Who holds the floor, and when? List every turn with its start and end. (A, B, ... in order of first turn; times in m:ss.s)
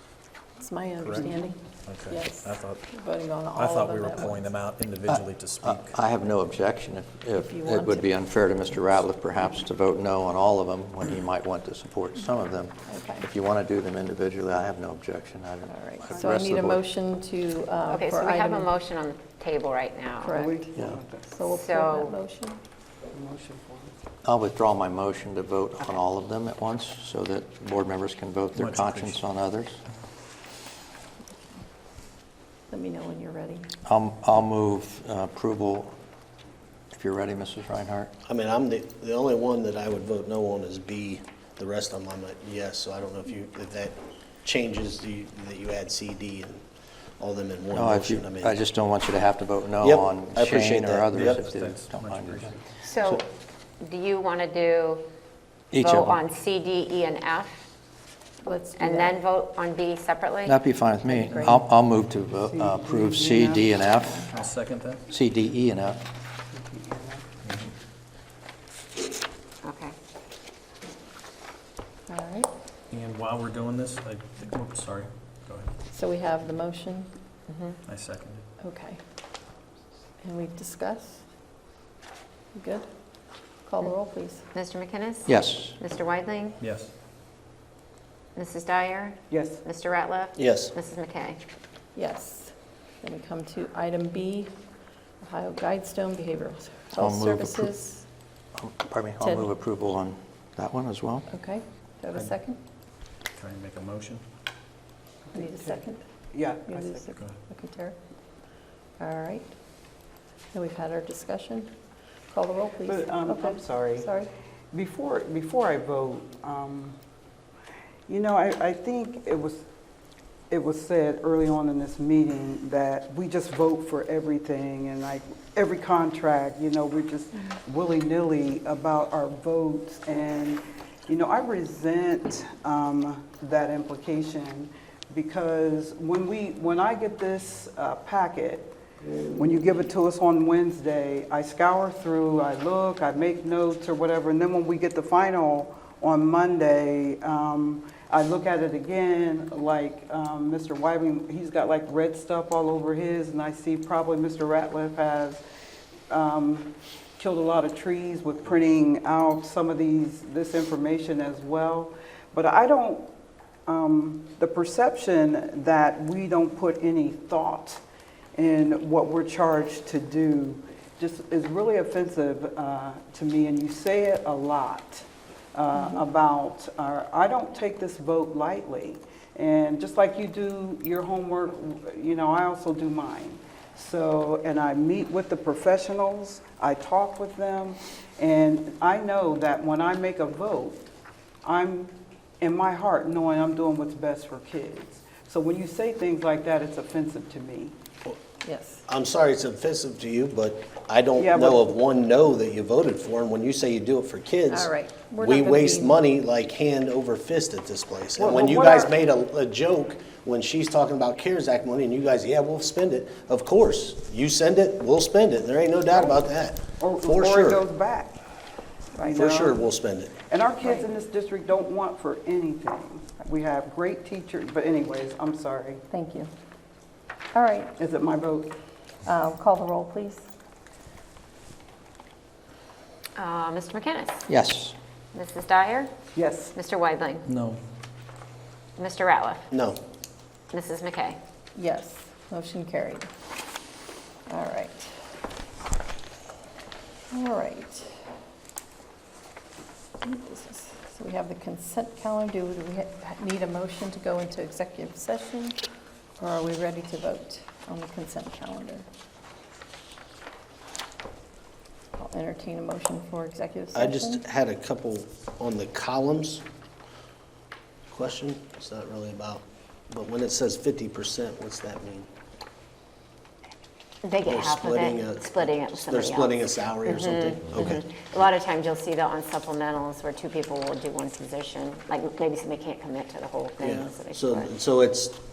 0:00.6-0:04.5 A
0:01.0-0:01.3 B
0:01.8-0:03.0 B
0:03.5-0:06.0 B
0:05.1-0:16.9 C
0:07.4-0:08.1 A
0:12.9-0:13.3 A
0:15.7-0:18.7 A
0:17.9-0:20.4 D
0:20.2-0:20.6 A
0:20.2-0:21.3 E
0:21.3-0:22.6 A
0:21.4-0:22.2 D
0:23.1-0:23.9 E
0:24.2-0:29.8 C
0:28.6-0:29.2 B
0:32.7-0:33.7 A
0:33.9-0:36.0 C
0:36.9-0:38.1 C
0:38.2-0:46.6 F
0:47.2-0:48.6 F
0:47.7-0:53.2 C
0:49.8-0:51.4 F
0:51.1-0:52.6 B
0:52.8-0:53.2 D
0:53.8-0:55.0 D
0:55.7-0:56.2 C
0:55.8-0:57.6 D
0:58.4-0:59.2 A
0:58.8-1:00.6 D
1:00.4-1:04.3 C
1:01.0-1:01.6 A
1:01.3-1:01.6 B
1:02.4-1:03.7 E
1:04.0-1:04.3 A
1:04.3-1:05.0 B
1:05.1-1:06.0 C
1:06.5-1:07.3 E
1:07.4-1:07.7 B
1:09.6-1:09.9 D
1:12.1-1:12.5 A
1:12.9-1:15.7 B
1:15.9-1:17.2 A
1:17.5-1:17.8 D
1:17.9-1:18.4 B
1:18.6-1:19.0 A
1:20.2-1:21.2 A
1:22.5-1:22.9 A
1:23.6-1:24.4 A
1:24.5-1:26.6 D
1:25.3-1:25.8 C
1:26.6-1:26.9 B
1:28.4-1:31.4 D
1:29.3-1:29.6 E
1:30.4-1:30.7 F
1:32.0-1:34.5 A
1:35.2-1:38.0 A
1:36.9-1:37.7 C
1:38.6-1:41.3 C
1:39.2-1:39.5 A
1:41.3-1:42.6 A
1:43.3-1:44.2 B
1:45.3-1:47.2 E
1:45.3-1:46.0 A
1:46.6-1:48.0 A
1:49.0-1:49.6 A
1:50.5-1:51.7 A
1:52.3-1:54.3 A
1:52.8-1:54.1 E
1:54.7-1:57.0 E
1:58.1-1:59.6 E
2:00.5-2:18.7 E
2:19.4-2:35.4 E
2:36.1-2:43.1 E
2:43.7-2:47.8 E
2:48.4-3:10.8 E
2:55.7-2:56.0 A
3:11.4-3:17.8 E
3:18.4-3:18.8 A
3:18.9-3:37.6 F
3:21.2-3:21.6 E
3:24.5-3:26.0 A
3:28.2-3:28.9 E
3:36.8-3:38.2 E
3:39.0-3:40.2 F
3:39.0-3:39.6 E
3:40.2-3:45.8 E
3:40.6-3:40.9 A
3:45.9-3:46.3 A
3:47.3-3:47.8 A
3:47.8-3:48.6 E
3:49.0-3:50.3 A
3:53.2-3:54.2 D
3:54.3-3:54.8 C
3:55.1-3:55.9 D
3:56.2-3:56.5 E
3:56.5-3:57.2 D
3:57.3-3:57.6 B
3:58.8-3:59.5 D
3:59.5-3:59.8 F
4:00.5-4:01.2 D
4:01.6-4:03.1 A
4:04.3-4:04.9 A
4:07.1-4:08.0 A
4:10.0-4:15.6 A
4:16.2-4:18.9 A
4:22.0-4:24.2 A
4:23.8-4:26.4 F
4:27.9-4:32.1 F
4:34.0-4:44.5 D
4:34.2-4:37.9 F
4:43.6-4:45.2 F